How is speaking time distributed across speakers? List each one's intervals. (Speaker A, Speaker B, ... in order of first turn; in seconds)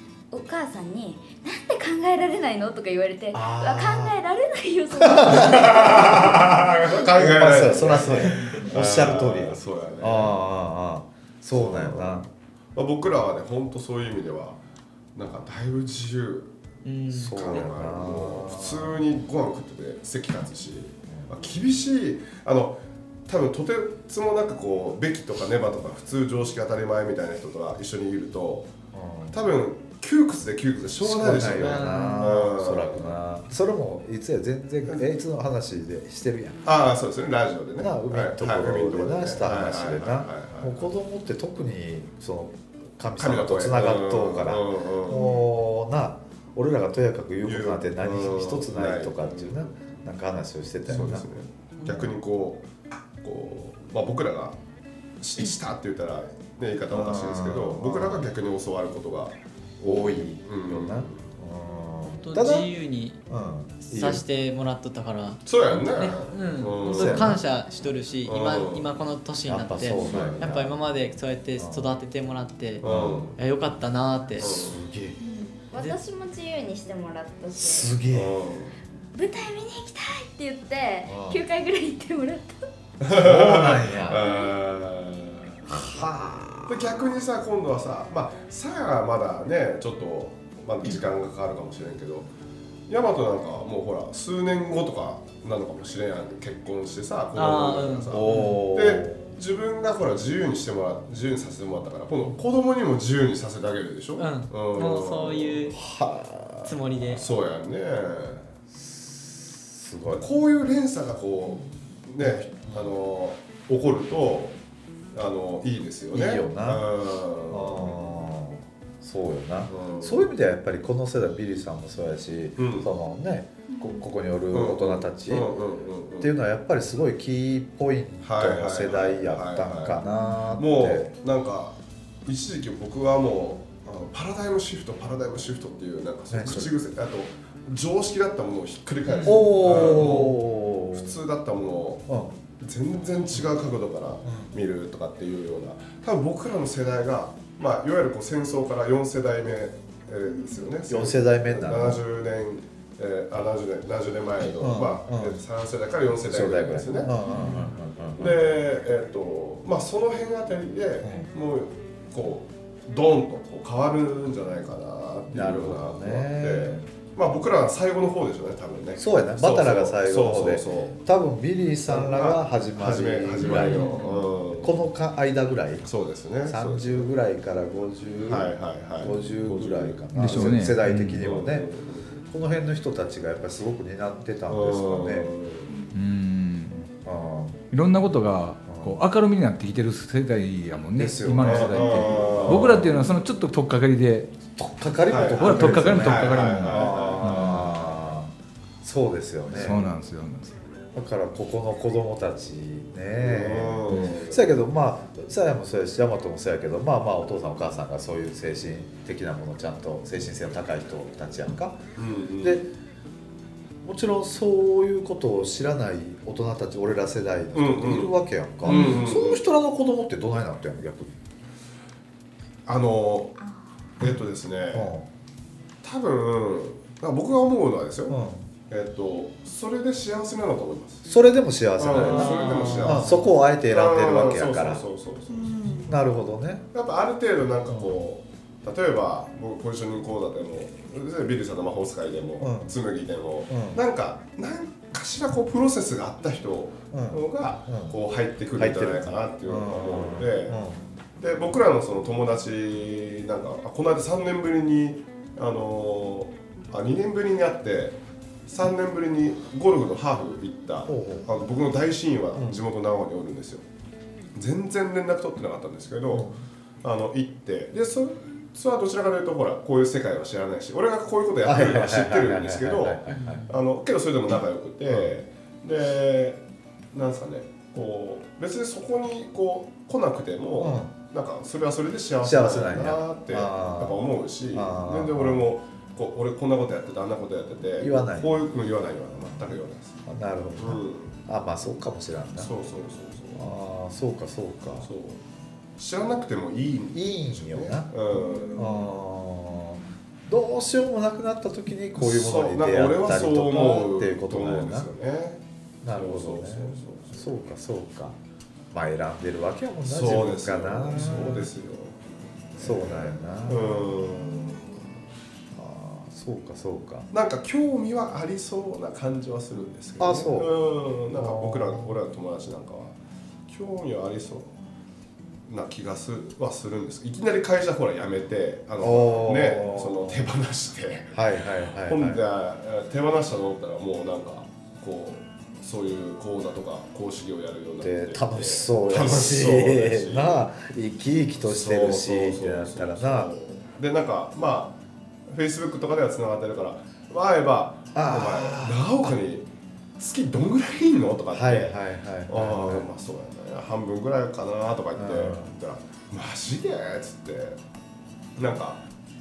Speaker A: 0.3-6.3, 45.1-45.5, 75.2-77.9, 79.1-82.6, 235.4-235.9
Speaker B: 3.3-4.2, 5.0-12.3, 17.1-19.0, 28.9-29.4, 31.0-36.7, 37.8-51.3, 51.9-52.1, 56.9-58.3, 59.8-62.7, 63.3-64.2, 66.9-67.4, 69.5-70.8, 71.6-71.9, 72.8-73.3, 74.6-75.2, 77.6-78.4, 81.1-81.4, 83.1-84.4, 85.7-87.0, 98.1-99.3, 105.7-106.8, 108.7-110.3, 112.2-112.9, 116.1-116.9, 117.5-125.5, 126.2-131.1, 136.3-136.7, 139.2-141.2, 142.1-142.3, 150.9-152.0, 154.6-155.4, 156.2-158.4, 161.0-161.3, 165.3-166.9, 169.0-175.9, 176.5-181.7, 182.3-185.3, 187.0-187.7, 188.7-189.0, 191.0-193.0, 194.6-199.9, 200.9-211.9, 212.4-212.7, 213.8-221.1, 224.7-225.1, 228.1-228.5, 231.1-234.8, 235.8-236.6, 237.7-238.0, 242.4-242.7, 243.5-243.8, 246.9-248.0, 248.6-250.8, 260.9-261.3, 262.4-262.6, 266.1-266.4, 271.4-273.5, 280.6-280.9, 282.2-285.5, 287.8-288.4, 290.1-292.5, 293.4-294.9, 296.9-297.9, 298.6-304.9, 305.8-308.2, 308.7-311.5, 312.6-314.5, 315.5-317.1, 320.0-320.5, 321.1-322.0, 328.8-330.3, 331.1-332.2, 337.8-343.3, 347.9-348.8, 351.3-352.9, 355.0-355.5
Speaker C: 5.3-10.4, 11.5-14.6, 15.2-16.5, 17.3-28.7, 29.3-33.2, 36.6-40.9, 43.2-45.3, 47.4-49.8, 50.9-54.6, 55.2-61.3, 65.5-67.4, 68.3-68.9, 70.0-70.5, 72.8-73.4, 74.4-74.9, 78.1-78.7, 83.0-85.9, 86.7-92.3, 92.9-105.7, 107.0-108.4, 110.1-114.5, 115.1-118.0, 119.7-120.3, 122.6-122.9, 124.5-126.3, 128.2-130.0, 130.6-157.2, 158.2-171.0, 171.9-174.8, 175.8-177.1, 178.2-182.2, 184.5-185.8, 191.4-192.9, 195.1-197.9, 203.2-204.5, 212.0-212.6, 217.5-219.4, 222.7-223.4, 224.0-224.9, 225.8-228.2, 228.7-231.1, 231.8-235.6, 236.7-250.6, 251.2-263.6, 264.4-266.3, 266.8-276.4, 276.9-290.0, 290.6-291.2, 292.4-293.5, 294.8-295.2, 295.8-298.9, 302.0-307.3, 309.9-314.9, 317.1-322.9, 323.5-324.5, 325.5-331.2, 331.9-340.4, 341.4-344.8, 345.3-351.8, 352.3-357.6, 358.4-358.8
Speaker D: 16.9-17.7, 31.5-32.3, 51.8-52.1, 62.0-63.2, 63.8-72.8, 73.4-74.7, 97.3-98.6, 104.2-105.8, 106.7-107.3, 139.1-139.4, 157.2-157.7, 173.5-174.1, 232.0-233.2, 273.1-273.6
Speaker E: 180.2-181.2, 185.9-186.9, 187.7-194.3, 195.3-197.7, 199.5-200.6